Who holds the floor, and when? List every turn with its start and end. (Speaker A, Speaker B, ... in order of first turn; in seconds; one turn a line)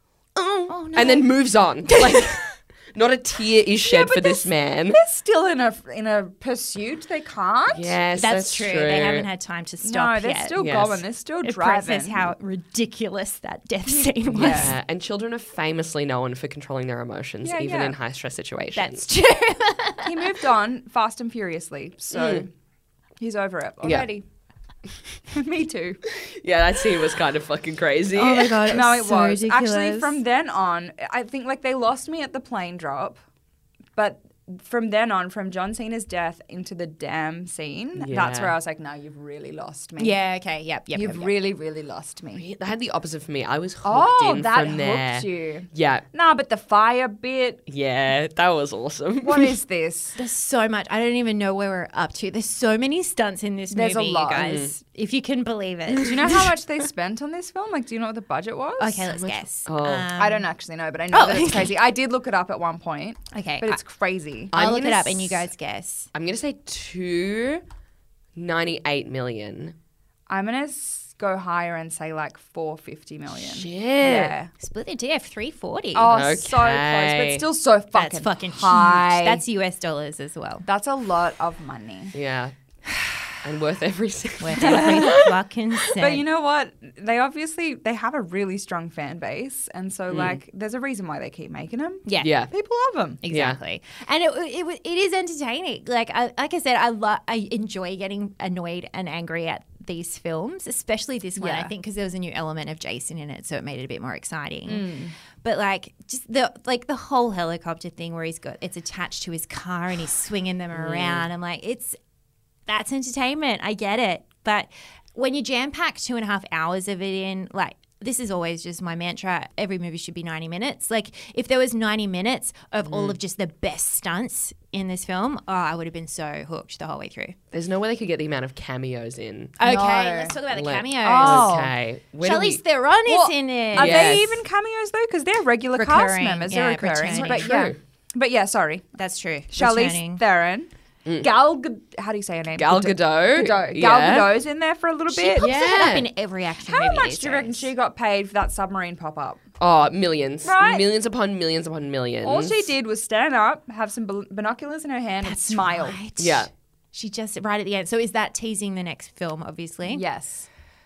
Speaker A: 0.3-5.0
Speaker B: 0.7-1.3
Speaker B: 1.9-2.4
Speaker C: 3.9-7.9
Speaker A: 7.7-9.3
Speaker B: 8.2-10.6
Speaker C: 9.8-12.3
Speaker A: 10.6-11.0
Speaker B: 11.4-14.7
Speaker C: 13.9-14.7
Speaker A: 14.3-19.1
Speaker C: 17.4-17.9
Speaker B: 18.8-20.4
Speaker C: 20.1-22.5
Speaker A: 22.1-22.4
Speaker C: 23.2-24.2
Speaker A: 23.8-24.1
Speaker C: 25.3-26.0
Speaker A: 26.1-28.7
Speaker B: 28.1-30.2
Speaker C: 28.6-33.2
Speaker C: 34.0-40.2
Speaker A: 38.0-38.5
Speaker B: 40.0-41.3
Speaker C: 40.9-42.4
Speaker A: 42.4-46.1
Speaker C: 43.8-47.6
Speaker A: 47.7-49.5
Speaker C: 49.2-50.2
Speaker B: 50.2-56.5
Speaker C: 53.7-54.6
Speaker A: 54.4-54.7
Speaker C: 56.0-59.1
Speaker B: 58.8-60.5
Speaker A: 59.1-60.1
Speaker C: 60.2-64.5
Speaker B: 61.1-61.8
Speaker B: 63.3-63.8
Speaker A: 64.5-65.5
Speaker B: 64.5-66.1
Speaker A: 66.1-67.6
Speaker A: 68.4-69.7
Speaker C: 70.3-74.5
Speaker A: 73.4-74.4
Speaker B: 74.6-76.1
Speaker C: 76.0-79.4
Speaker A: 76.1-77.5
Speaker B: 77.9-80.6
Speaker C: 80.6-82.1
Speaker A: 82.1-82.5
Speaker A: 83.4-85.3
Speaker B: 84.4-86.2
Speaker C: 84.6-85.3
Speaker C: 86.0-93.2
Speaker A: 90.1-90.4
Speaker B: 92.1-92.3
Speaker A: 92.2-92.5
Speaker B: 93.2-104.9
Speaker A: 93.3-93.6
Speaker C: 101.4-101.7
Speaker C: 104.7-105.1
Speaker B: 105.4-112.0
Speaker A: 110.7-111.2
Speaker B: 112.7-127.4
Speaker A: 122.9-123.2
Speaker A: 127.5-129.6
Speaker B: 129.6-131.7
Speaker C: 129.6-130.4
Speaker A: 130.5-132.6
Speaker C: 131.0-131.7
Speaker B: 132.2-134.2
Speaker C: 133.1-138.9
Speaker A: 133.8-134.4
Speaker B: 135.7-137.5
Speaker A: 137.1-137.8
Speaker B: 139.0-140.2
Speaker C: 139.5-140.7
Speaker A: 141.1-141.3
Speaker C: 141.2-145.5
Speaker A: 142.6-144.4
Speaker B: 145.1-147.7
Speaker A: 145.4-146.1
Speaker C: 146.6-149.4
Speaker A: 149.6-152.7
Speaker C: 150.4-150.9
Speaker C: 152.2-156.0
Speaker B: 155.2-160.0
Speaker A: 156.2-156.5
Speaker C: 159.9-160.5